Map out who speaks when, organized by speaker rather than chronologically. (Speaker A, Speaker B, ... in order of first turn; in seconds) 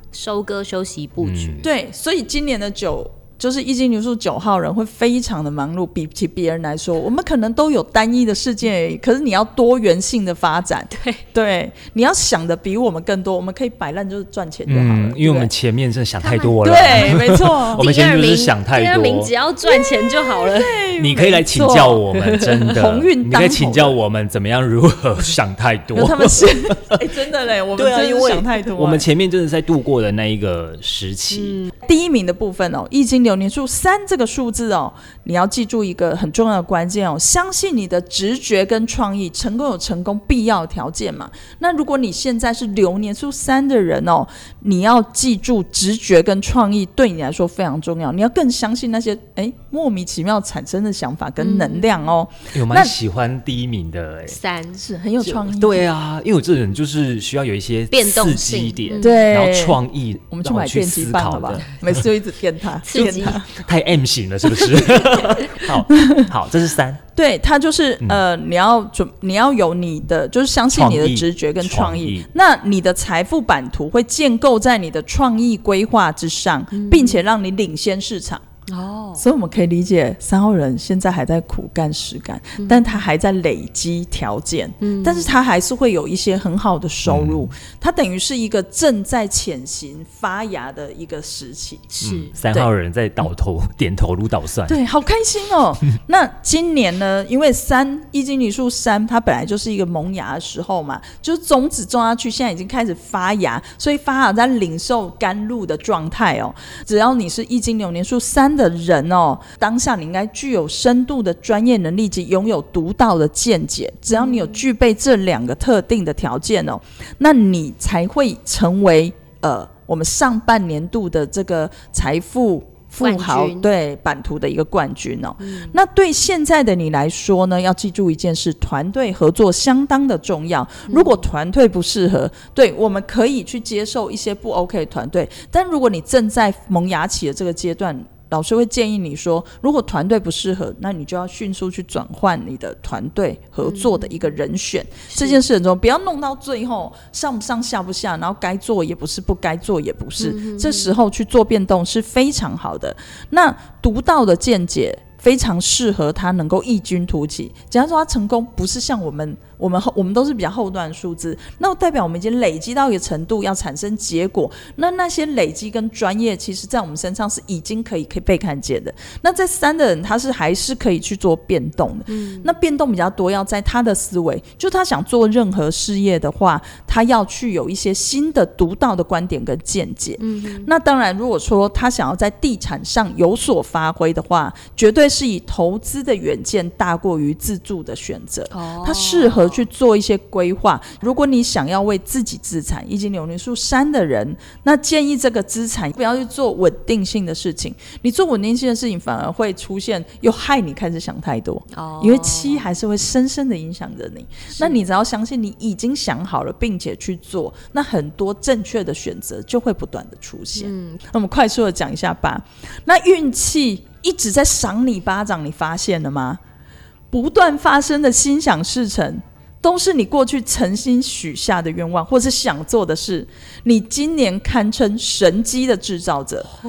Speaker A: 0.1-1.7, 10.9-11.2, 16.2-17.2, 17.8-20.8, 22.1-22.7, 31.4-31.7, 51.4-52.1, 54.3-54.8, 57.9-59.2, 62.8-63.4, 76.7-77.2, 78.7-79.2, 82.6-83.0, 84.8-85.3, 91.9-92.3, 114.1-114.6, 123.0-123.7, 125.4-125.7, 130.9-131.2, 143.6-144.1, 145.1-145.4, 150.2-150.9, 172.1-172.5, 180.2-180.7, 188.5-189.6, 201.7-202.6, 204.6-204.8, 210.6-211.0
Speaker B: 1.2-1.6, 14.7-19.3, 20.9-27.1, 27.7-31.7, 52.5-54.4, 55.2-62.0, 63.4-67.0, 70.7-72.3, 87.0-87.5, 92.0-94.8
Speaker C: 1.6-15.5, 16.6-17.8, 19.6-22.0, 22.7-24.0, 25.9-29.1, 31.8-52.9, 54.8-55.9, 59.0-63.5, 65.9-66.3, 67.1-78.4, 79.2-91.8, 94.7-216.4, 217.1-226.5